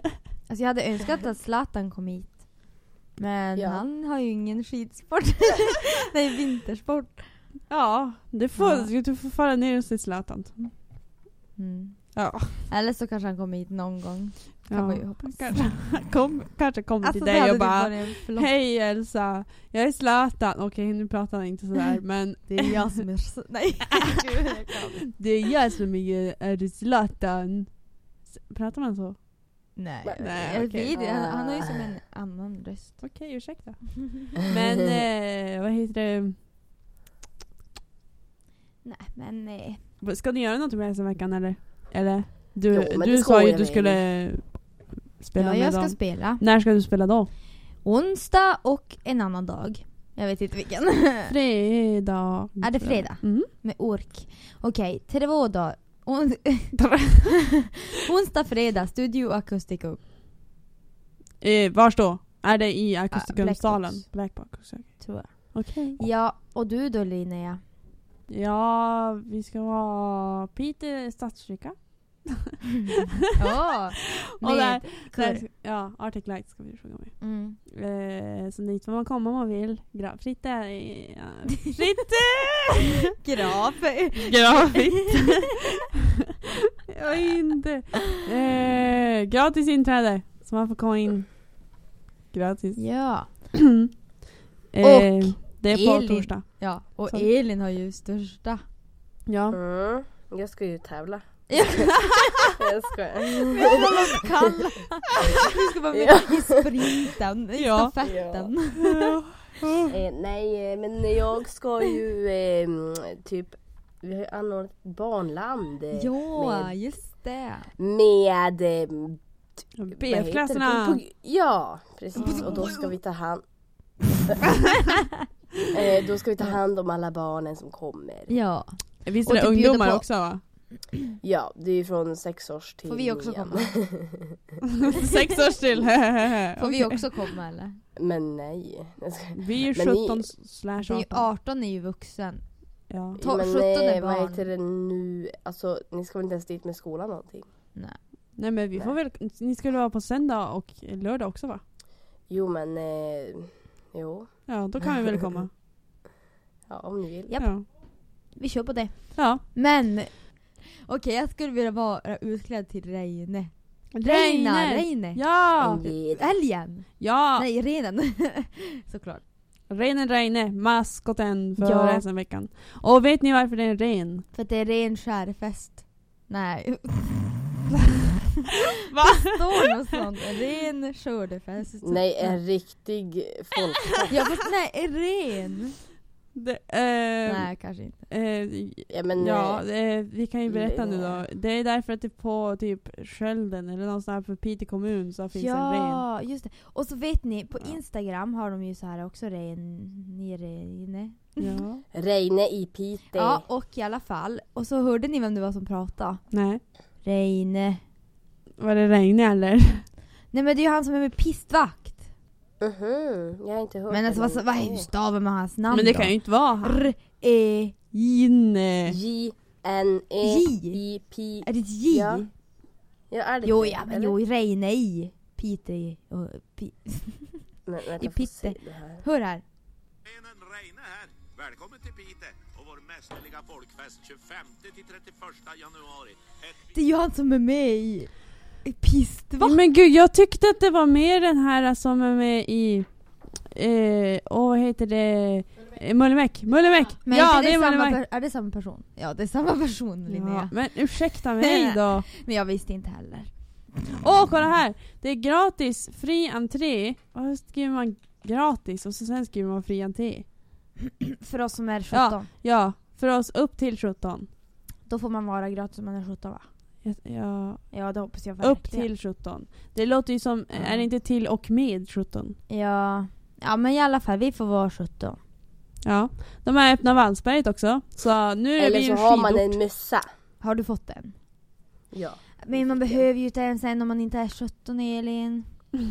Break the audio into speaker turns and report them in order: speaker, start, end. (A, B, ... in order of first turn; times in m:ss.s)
0:00.5-0:02.6 A
0:03.1-0:07.4 A
0:03.6-0:03.8 B
0:07.7-0:10.7 C
0:08.6-0:08.9 A
0:11.6-0:15.7 A
0:12.1-0:12.7 C
0:14.7-0:23.0 C
0:17.0-0:18.5 A
0:22.5-0:25.0 A
0:25.1-0:29.2 C
0:29.7-0:33.1 A
0:30.0-0:31.8 B
0:30.2-0:30.9 C
0:33.0-0:36.4 C
0:38.8-0:39.8 A
0:40.0-0:47.3 C
0:42.7-0:44.0 B
0:45.4-0:46.4 A
0:47.8-0:51.3 A
0:51.3-0:53.5 C
0:52.6-1:00.0 A
0:56.7-0:57.5 C
1:01.4-1:06.0 C
1:03.1-1:04.3 A
1:05.0-1:07.6 A
1:08.3-1:13.1 C
1:13.3-1:15.4 A
1:14.0-1:23.0 C
1:17.2-1:17.6 A
1:23.2-1:25.4 A
1:24.1-1:25.6 C
1:26.9-1:31.6 C
1:32.3-1:33.9 C
1:32.8-1:33.3 A
1:34.7-1:37.3 C
1:34.8-1:38.6 A
1:39.3-1:39.6 C
1:39.5-1:42.0 B
1:41.5-1:42.5 A
1:42.6-1:43.9 B
1:43.6-1:49.1 A
1:45.9-1:46.6 B
1:47.6-1:47.9 C
1:48.0-1:48.5 B
1:48.8-1:49.9 C
1:49.9-1:56.7 B
1:55.9-1:57.7 A
1:57.8-1:59.2 B
1:59.8-2:01.0 C
2:00.0-2:03.4 B
2:02.2-2:02.8 A
2:02.2-2:02.7 C
2:04.1-2:04.4 B
2:05.7-2:08.3 B
2:08.3-2:10.1 A
2:09.0-2:10.4 C
2:11.2-2:14.4 B
2:12.9-2:13.7 A
2:14.8-2:17.0 C
2:16.6-2:17.8 A
2:18.0-2:20.3 B
2:19.3-2:21.3 C
2:20.8-2:22.6 A
2:22.9-2:23.2 C
2:23.2-2:24.4 A
2:23.2-2:27.5 B
2:28.4-2:31.6 C
2:32.3-2:34.5 B
2:34.5-2:35.5 C
2:36.7-2:37.3 B
2:37.3-2:45.2 A
2:37.4-2:37.6 C
2:39.2-2:39.4 C
2:43.9-2:45.8 C
2:45.6-2:46.3 B
2:46.2-2:49.2 A
2:47.0-2:47.4 C
2:49.7-2:54.2 C
2:51.6-2:52.0 A
2:54.3-2:57.4 A
2:58.6-3:02.4 A
2:58.9-2:59.4 C
3:01.8-3:04.2 B
3:04.1-3:05.8 A
3:06.3-3:07.6 C
3:07.2-3:08.0 A
3:08.1-3:16.0 C
3:08.9-3:09.6 B
3:10.5-3:11.2 B
3:15.3-3:21.6 A
3:21.4-3:21.8 C
3:21.9-3:23.4 B
3:23.1-3:26.3 A
3:26.3-3:26.6 C
3:27.0-3:27.8 A
3:28.6-3:29.9 C
3:30.3-3:32.0 A
3:32.6-3:34.9 B
3:33.9-3:37.9 A
3:35.7-3:36.9 C
3:38.0-3:39.0 C
3:38.8-3:42.2 B
3:40.2-3:40.8 A
3:41.4-3:42.3 A
3:43.1-3:44.1 B
3:43.4-3:47.4 A
3:47.6-3:49.0 B
3:48.0-3:49.4 A
3:50.0-3:56.6 D
3:56.7-3:59.6 A
3:59.4-4:08.0 C
4:07.0-4:13.4 A
4:10.1-4:12.1 C
4:13.9-4:20.3 C
4:21.0-4:22.3 A
4:21.9-4:24.3 C
4:24.8-4:26.4 A
4:26.8-4:32.4 C
4:27.7-4:28.9 A
4:30.5-4:30.9 A
4:32.5-4:35.2 A
4:35.8-4:39.6 C
4:38.6-4:40.1 B
4:40.4-4:41.2 A
4:41.9-4:43.0 B
4:42.4-4:45.7 A